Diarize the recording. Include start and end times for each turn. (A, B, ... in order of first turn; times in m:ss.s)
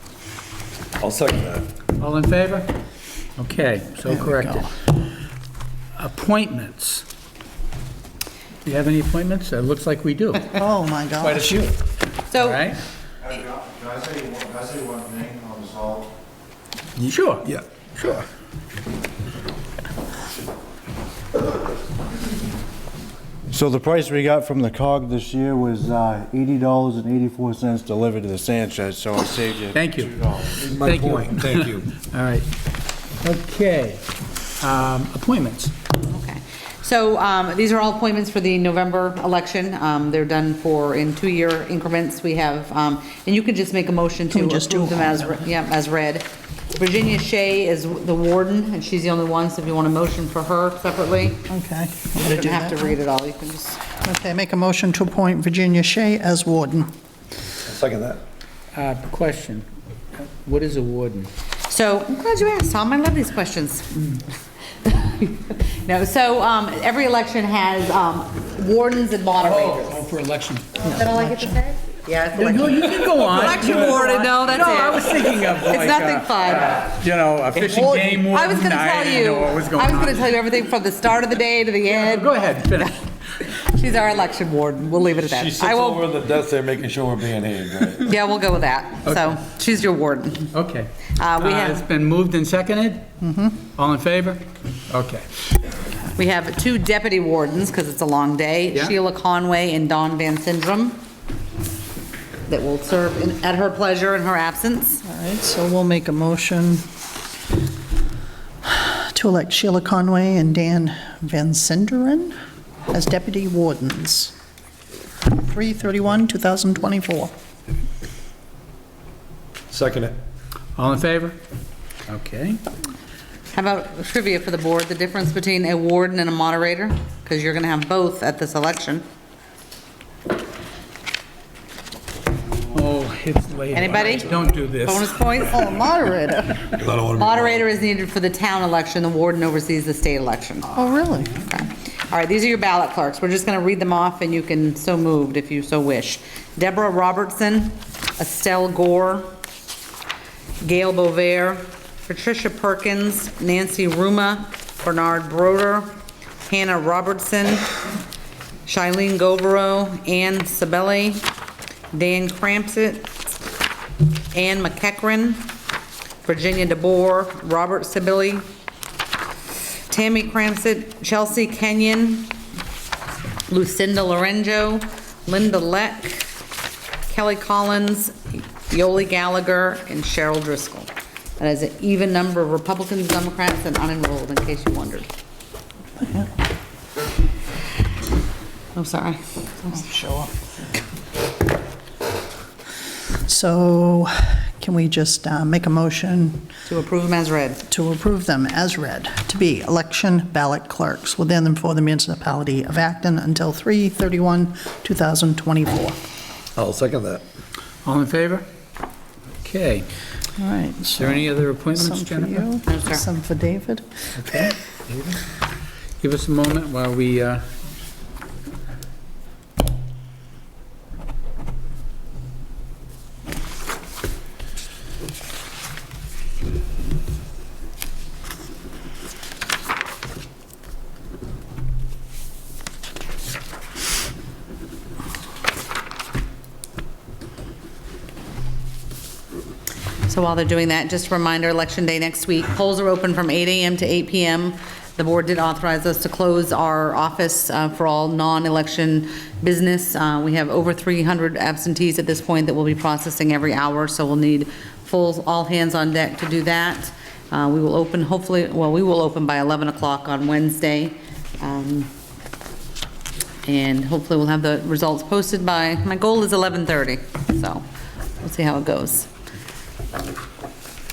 0:01.0-0:01.6 A
0:02.0-0:02.7 B
0:03.4-0:04.7 B
0:04.1-0:04.7 C
0:06.0-0:07.0 B
0:08.6-0:10.6 B
0:10.5-0:11.7 C
0:11.2-0:11.8 B
0:12.3-0:12.7 D
0:12.3-0:12.8 B
0:13.3-0:16.1 E
0:17.0-0:18.2 B
0:17.5-0:18.1 A
0:23.5-0:30.6 E
0:29.7-0:32.5 B
0:30.6-0:31.9 A
0:33.2-0:34.0 B
0:34.6-0:35.7 B
0:36.0-0:51.4 D
0:44.3-0:45.4 C
0:51.5-0:53.0 C
0:52.2-0:53.8 D
0:54.0-0:56.9 C
0:57.7-0:58.2 A
0:58.7-0:59.7 B
1:00.2-1:01.3 B
1:01.7-1:04.2 D
1:04.8-1:10.1 D
1:09.4-1:11.4 B
1:10.8-1:16.9 D
1:12.4-1:20.3 B
1:17.6-1:26.0 D
1:21.8-1:23.0 B
1:25.2-1:28.1 A
1:28.0-1:30.5 D
1:30.5-1:33.1 B
1:31.2-1:31.8 D
1:33.2-1:33.6 C
1:33.6-1:35.3 B
1:36.2-1:41.0 D
1:42.5-1:45.0 D
1:45.0-1:46.8 C
1:48.6-1:52.4 C
1:52.9-1:54.3 C
1:55.2-1:57.3 C
1:59.7-2:00.2 A
2:00.8-2:01.4 B
2:02.1-2:02.6 B
2:03.5-2:09.0 D
2:12.7-2:15.2 B
2:13.7-2:15.6 D
2:15.4-2:16.6 C
2:16.8-2:17.6 A
2:16.8-2:20.8 D
2:20.7-2:21.4 C
2:21.4-2:29.3 D
2:30.6-2:36.0 D
2:36.5-2:37.7 D
2:38.7-2:41.2 D
2:41.9-2:43.1 D
2:44.3-2:45.5 D
2:46.2-2:48.4 D
2:49.9-2:52.4 D
2:53.5-2:56.3 D
2:57.1-3:05.1 D
3:06.0-3:06.3 C
3:08.8-3:09.8 D
3:09.7-3:10.3 C
3:13.2-3:16.5 C
3:16.7-3:17.6 D
3:17.7-3:26.0 C
3:26.6-3:27.2 A
3:27.8-3:28.5 B
3:29.4-3:29.9 B
3:30.4-3:34.4 C
3:31.0-3:32.5 B
3:32.7-3:33.0 D
3:34.2-3:35.2 B
3:36.0-3:37.4 B
4:00.1-4:21.9 D
4:23.4-4:27.6 D
4:28.2-4:29.1 D